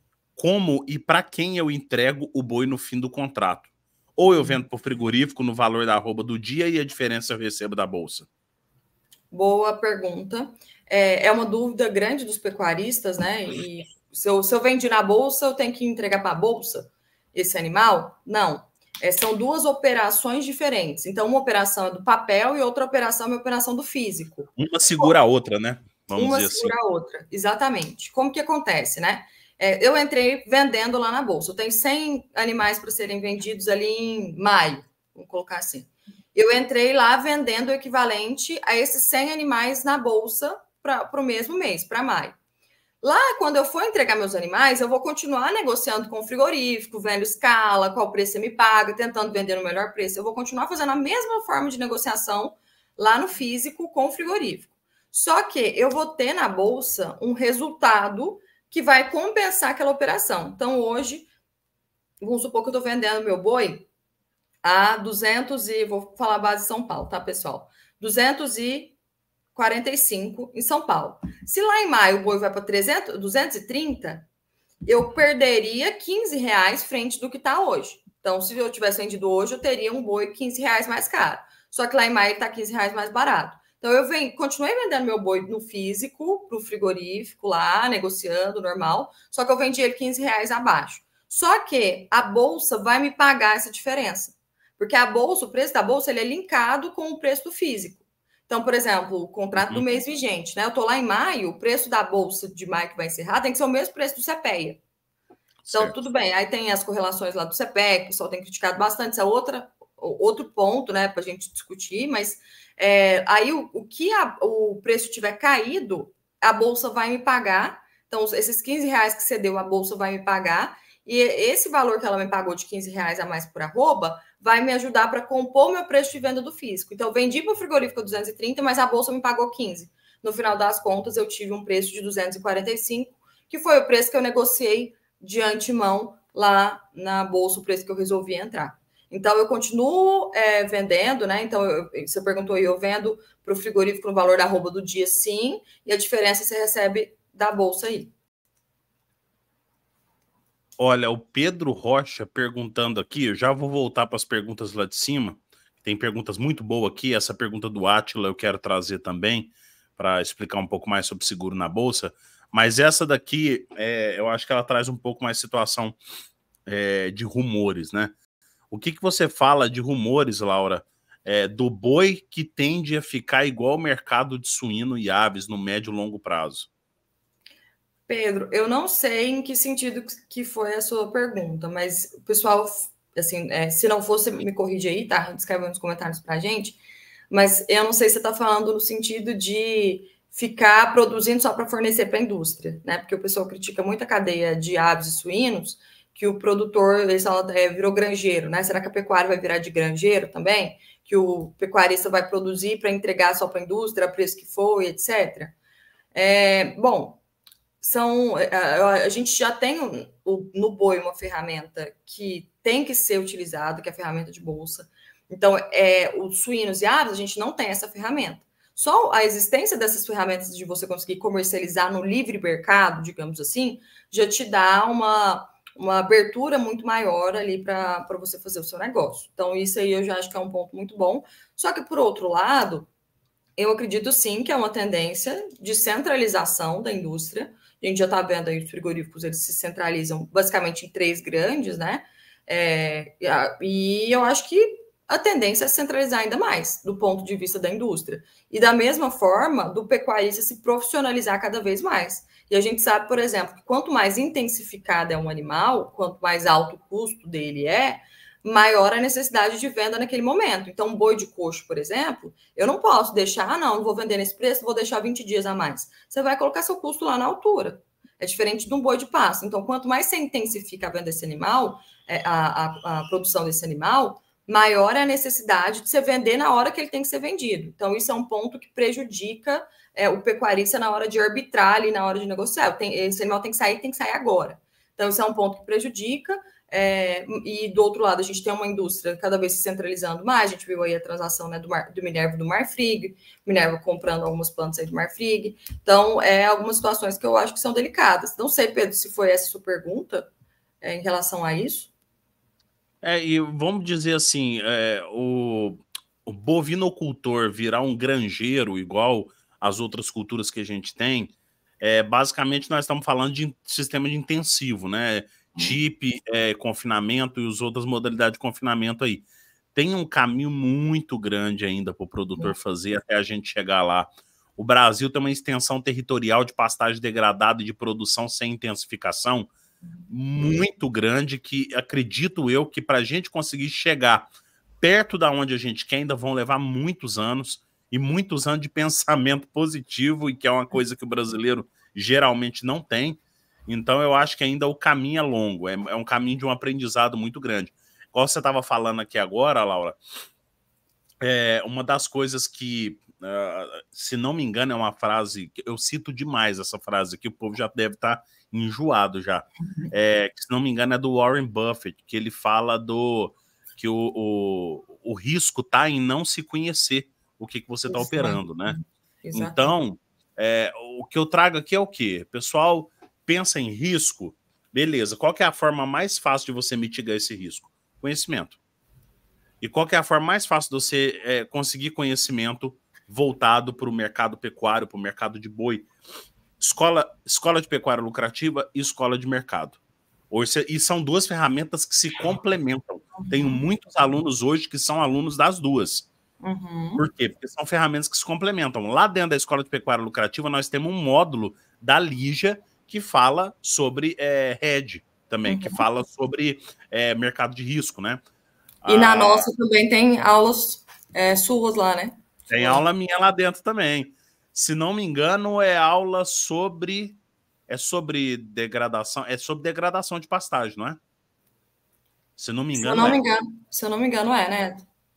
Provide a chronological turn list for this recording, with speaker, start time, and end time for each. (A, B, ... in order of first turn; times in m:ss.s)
0:00.4-0:08.3 A
0:04.2-0:04.6 B
0:09.3-0:25.1 B
0:24.6-0:26.8 A
0:26.2-0:42.4 B
0:43.0-1:01.3 B
1:02.2-1:03.9 B
1:04.6-1:09.0 B
1:09.5-1:14.3 B
1:14.9-1:44.8 B
1:39.6-1:39.8 A
1:45.6-1:46.0 A
1:45.7-2:28.1 B
2:30.8-2:46.0 A
2:46.7-2:48.1 A
2:48.7-2:56.7 A
2:58.1-3:25.6 B
3:26.1-3:27.2 B
3:27.8-3:52.9 B
3:53.6-5:00.3 B
5:00.8-5:01.9 B
5:03.0-5:29.5 A
5:30.0-5:30.6 B
5:30.1-5:34.3 A
5:34.8-5:50.0 A
5:51.2-6:08.8 A
5:59.6-5:59.9 B
6:07.9-6:09.8 B
6:09.3-6:18.6 A
6:19.6-6:25.9 A
6:26.6-6:29.8 A
6:30.3-6:36.1 A
6:33.2-6:33.6 B
6:36.4-6:37.1 B
6:37.0-6:48.2 A
6:45.4-6:45.8 B
6:48.8-6:49.5 A
6:48.9-6:52.8 B
6:52.5-7:01.0 A
7:02.4-7:03.2 A
7:02.8-7:04.8 B